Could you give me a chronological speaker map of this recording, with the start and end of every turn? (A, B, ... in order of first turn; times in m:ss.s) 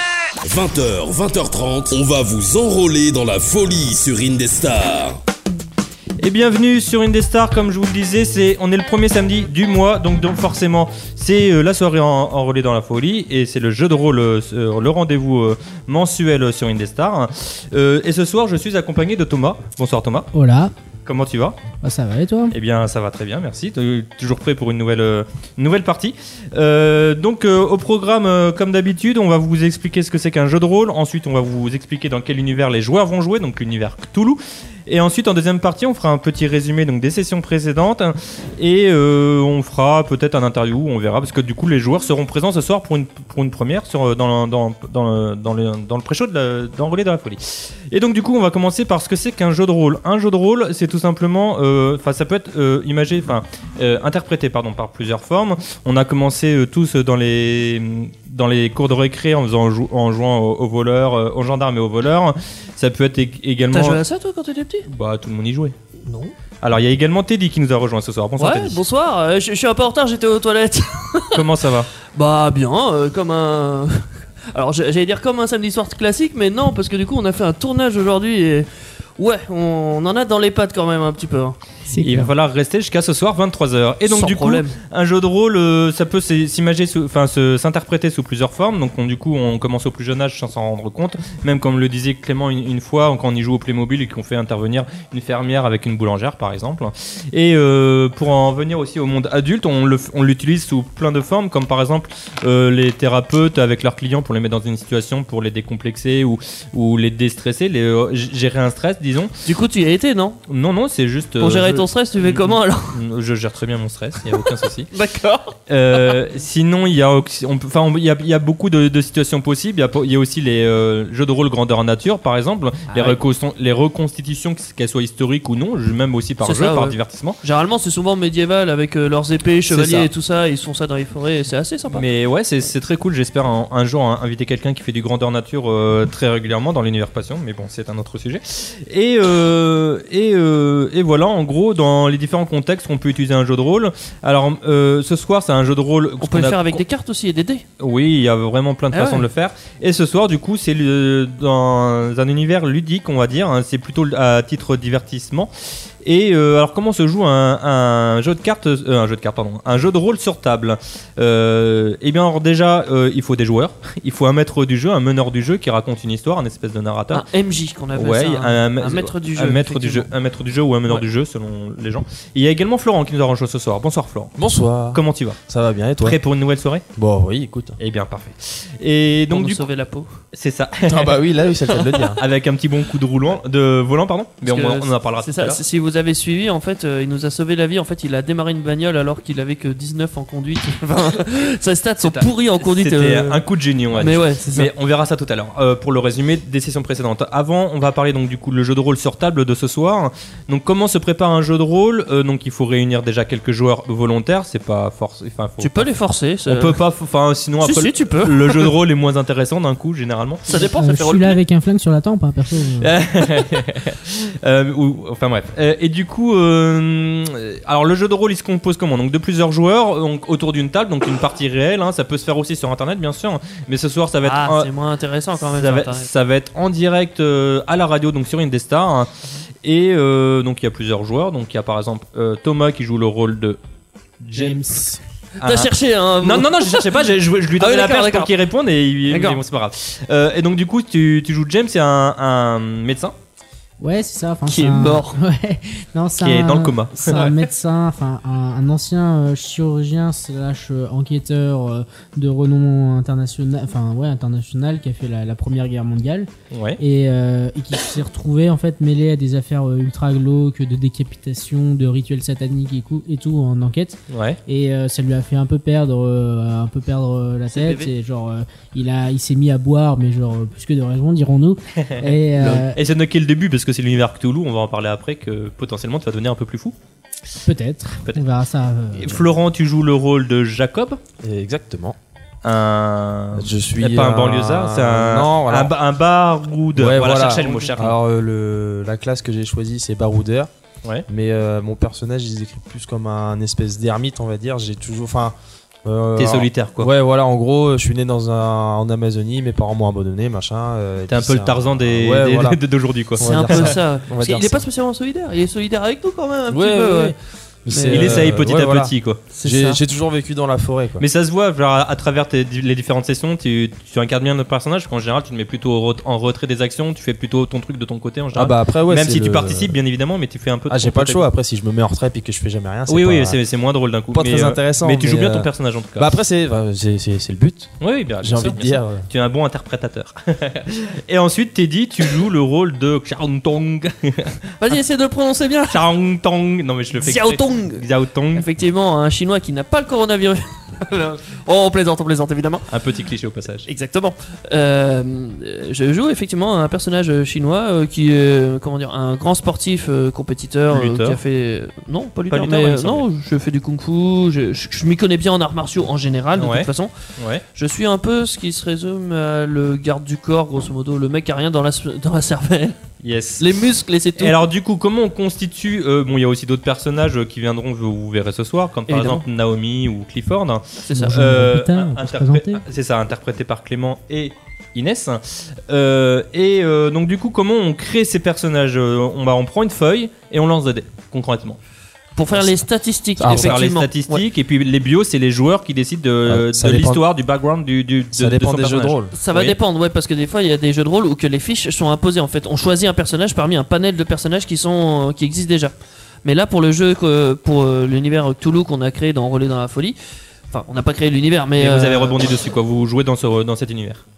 0:00.4-0:05.2 A
0:06.2-0:20.3 B
0:20.3-0:20.7 C
0:21.0-0:21.6 B
0:21.8-0:22.5 C
0:22.5-1:04.0 B
1:03.7-1:04.9 D
1:04.8-1:05.7 B
1:06.0-1:06.3 D
1:06.6-1:08.8 B
1:08.4-1:11.5 D
1:11.3-1:11.9 B
1:12.1-1:21.6 D
1:21.9-1:22.3 C
1:22.0-1:49.3 B
1:24.1-1:24.8 D
1:49.4-1:50.4 D
1:50.5-1:54.9 B
1:51.4-1:53.0 D
1:54.3-1:56.2 D
1:55.7-2:07.4 B
2:02.9-2:03.2 D
2:06.4-2:12.0 D
2:09.7-2:10.1 B
2:11.9-2:26.8 B
2:26.2-2:27.6 D
2:27.8-2:35.5 B
2:28.9-2:29.3 D
2:36.0-2:47.2 B
2:47.1-2:50.1 D
2:47.9-2:54.3 B
2:54.4-2:56.2 E
2:54.9-2:55.4 B
2:56.0-2:56.8 B
2:57.0-2:57.8 E
2:57.8-2:59.7 B
2:59.3-3:00.2 D
3:00.3-3:01.1 B
3:00.9-3:02.2 E
3:01.7-3:02.2 D
3:02.2-3:05.6 B
3:04.4-3:14.7 D
3:12.0-3:25.9 B
3:25.6-3:26.8 D
3:26.4-3:30.4 B
3:27.6-3:28.7 D
3:30.5-3:31.4 D
3:30.5-3:33.0 C
3:32.8-3:44.7 B
3:44.2-3:46.1 D
3:45.5-3:49.1 B
3:49.6-3:53.6 B
3:54.2-3:54.6 B
3:54.3-3:55.0 C
3:55.4-4:03.1 B
3:55.4-3:57.0 D
3:57.6-3:58.3 D
3:59.1-3:59.4 D
4:03.8-4:32.8 C
4:04.4-4:05.2 D
4:06.2-4:07.3 B
4:16.5-4:16.8 B
4:24.1-4:24.4 B
4:27.5-4:27.9 D
4:31.9-4:36.7 B
4:37.4-4:39.3 C
4:38.9-4:41.0 B
4:41.2-4:42.0 E
4:42.4-4:48.0 B
4:43.3-4:45.7 E
4:46.7-4:50.5 E
4:47.2-4:47.7 D
4:51.1-5:02.6 E
4:56.2-4:56.9 B
5:01.1-5:03.8 B
5:03.2-5:04.6 E
5:03.2-5:07.2 D
5:06.5-5:11.0 E
5:07.7-5:08.3 D
5:07.8-5:09.2 B
5:09.3-5:09.8 D
5:11.0-5:21.2 B
5:18.3-5:19.7 E
5:20.7-5:23.4 E
5:22.9-5:26.1 B
5:24.1-5:29.1 E
5:27.8-5:34.4 B
5:34.6-5:35.8 D
5:35.7-5:38.5 B
5:37.0-5:42.7 D
5:42.7-5:43.7 B
5:43.6-5:56.9 D
5:50.7-5:51.2 B
5:52.3-5:53.0 B
5:56.4-5:57.4 B
5:57.5-6:02.8 D
6:03.0-6:03.4 B
6:03.4-6:04.4 D
6:04.1-6:21.6 B
6:08.9-6:09.2 D
6:10.8-6:11.2 D
6:11.0-6:12.6 C
6:22.2-6:24.2 D
6:23.2-6:23.6 E
6:23.2-6:29.6 B
6:26.2-6:27.0 E
6:28.1-6:29.1 E
6:29.1-6:39.9 D
6:40.5-6:42.2 D
6:41.6-6:44.0 B